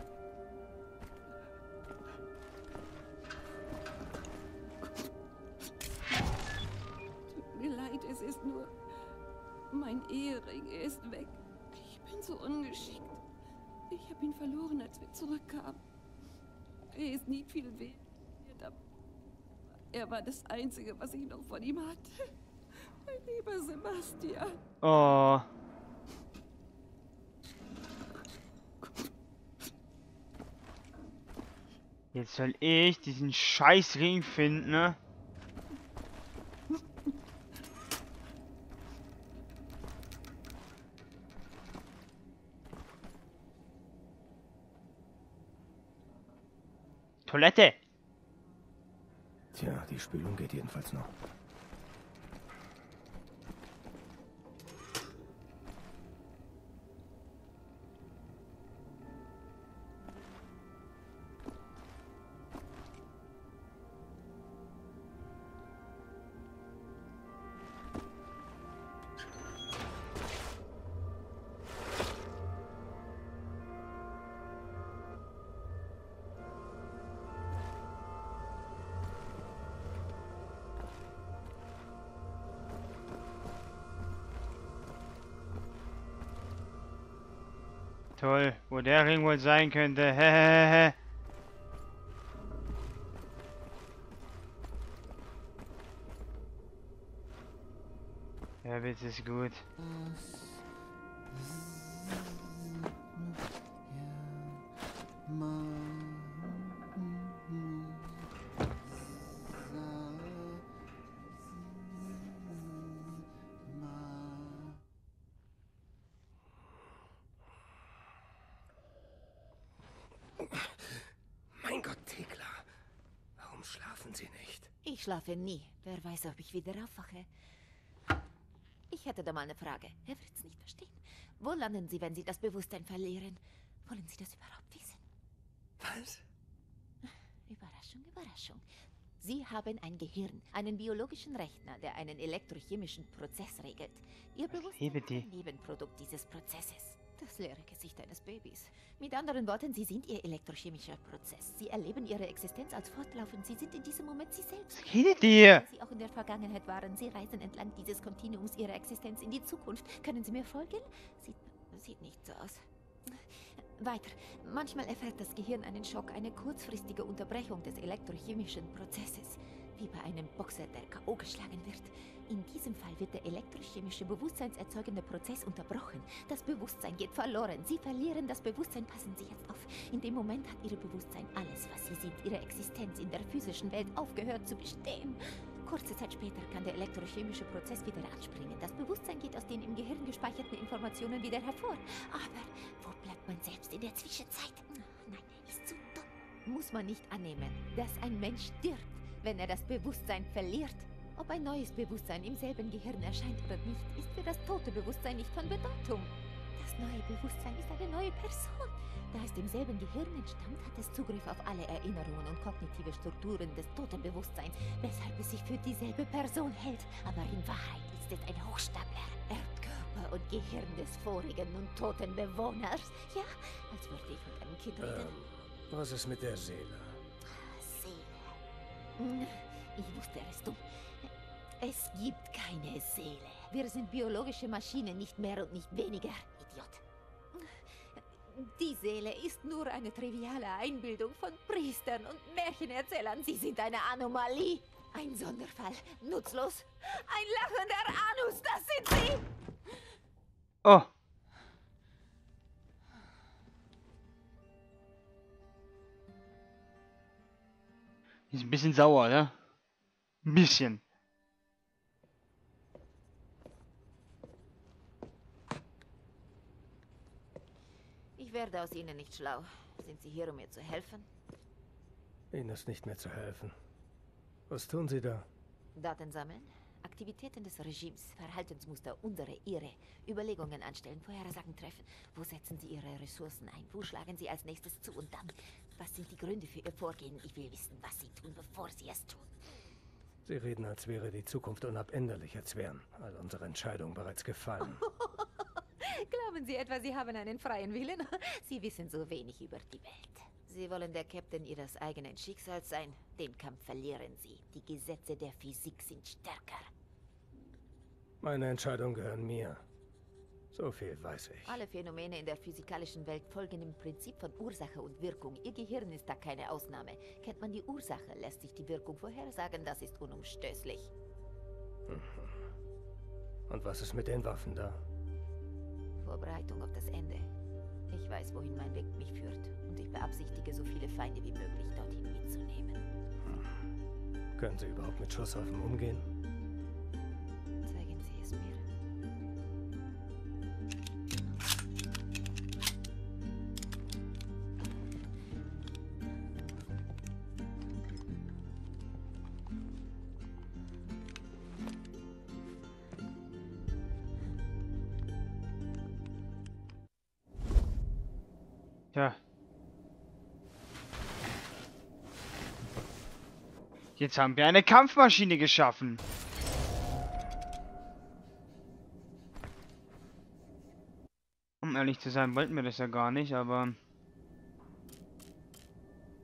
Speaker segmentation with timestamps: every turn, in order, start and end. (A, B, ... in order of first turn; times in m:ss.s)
0:07.3-0:08.7 A
0:09.7-0:13.2 A
0:13.9-0:15.8 A
0:16.9-0:18.8 A
0:19.9-0:22.2 A
0:23.0-0:24.6 A
0:24.8-0:25.5 B
0:32.1-0:35.0 B
0:47.3-0:47.8 B
0:49.5-0:51.1 C
1:28.2-1:31.0 B
1:38.6-1:39.6 B
2:00.4-2:01.0 C
2:01.6-2:02.7 C
2:03.4-2:04.7 C
2:04.8-2:07.3 D
2:08.9-2:15.0 D
2:15.8-2:16.2 C
2:17.0-2:18.6 D
2:19.2-3:45.1 D
2:24.5-2:25.2 B
2:34.8-2:35.6 B
3:44.8-3:47.0 C
3:47.2-3:48.4 D
3:49.0-3:56.8 D
3:57.3-4:09.2 D
4:10.6-4:10.9 B
4:18.3-4:19.3 B
4:20.2-4:20.8 B
4:28.2-4:31.1 D
4:32.3-4:33.6 C
4:34.5-4:35.3 C
4:35.8-4:49.3 D
4:50.2-4:54.8 C
4:54.6-5:06.7 D
5:08.2-5:09.6 C
5:10.5-5:11.6 C
5:11.5-5:20.9 D
5:21.9-5:22.4 C
5:23.5-5:24.8 C
5:26.0-5:27.3 D
5:27.9-5:32.8 D
5:34.4-5:36.1 C
5:37.6-5:38.6 D
6:04.0-6:06.0 B
6:11.6-6:13.8 B